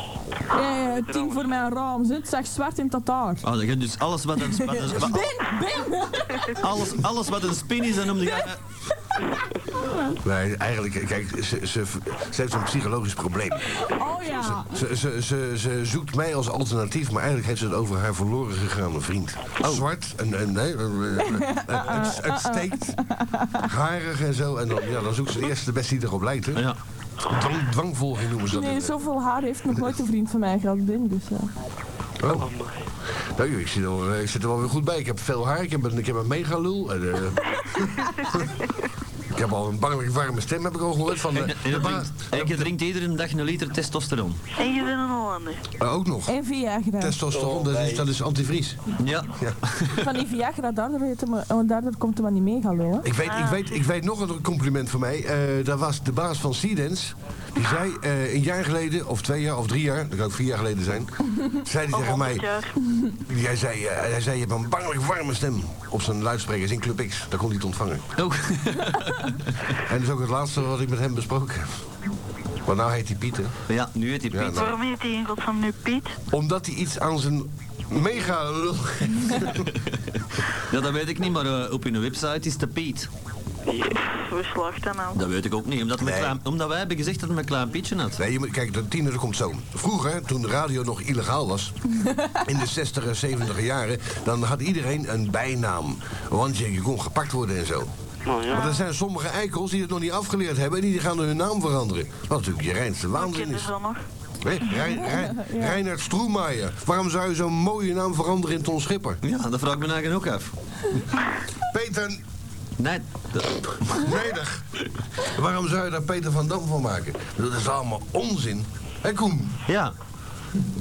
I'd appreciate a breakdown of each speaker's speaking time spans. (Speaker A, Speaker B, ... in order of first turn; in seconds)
Speaker A: 0.5-3.4, 4.5-6.6, 9.2-10.2, 13.8-14.8, 21.2-23.6, 28.5-31.5, 46.3-47.2, 50.0-53.1, 104.9-105.8
Speaker B: 0.6-1.7, 32.3-32.8, 47.3-48.1, 83.7-84.1, 98.3-98.8
Speaker C: 3.4-5.4, 6.5-8.6, 41.3-44.4, 49.0-50.1, 68.2-69.5, 73.7-74.7, 80.7-83.1, 85.2-88.2, 109.2-110.5, 112.8-114.1, 119.7-119.9
Speaker D: 10.2-23.0, 23.6-26.7, 27.2-28.9, 32.2-32.5, 33.4-38.5, 39.3-42.7, 45.8-46.3, 47.0-48.8, 53.0-62.5, 63.3-68.1, 69.8-71.7, 72.7-73.5, 74.3-74.7, 76.3-79.7, 86.0-86.4, 88.2-91.8, 92.3-97.9, 98.5-103.7, 104.4-109.2, 111.7-112.2, 113.9-114.7, 115.2-119.6
Speaker E: 44.6-45.6, 53.2-53.8, 61.9-62.8, 74.5-76.2, 84.1-85.2, 98.5-98.8, 103.1-104.0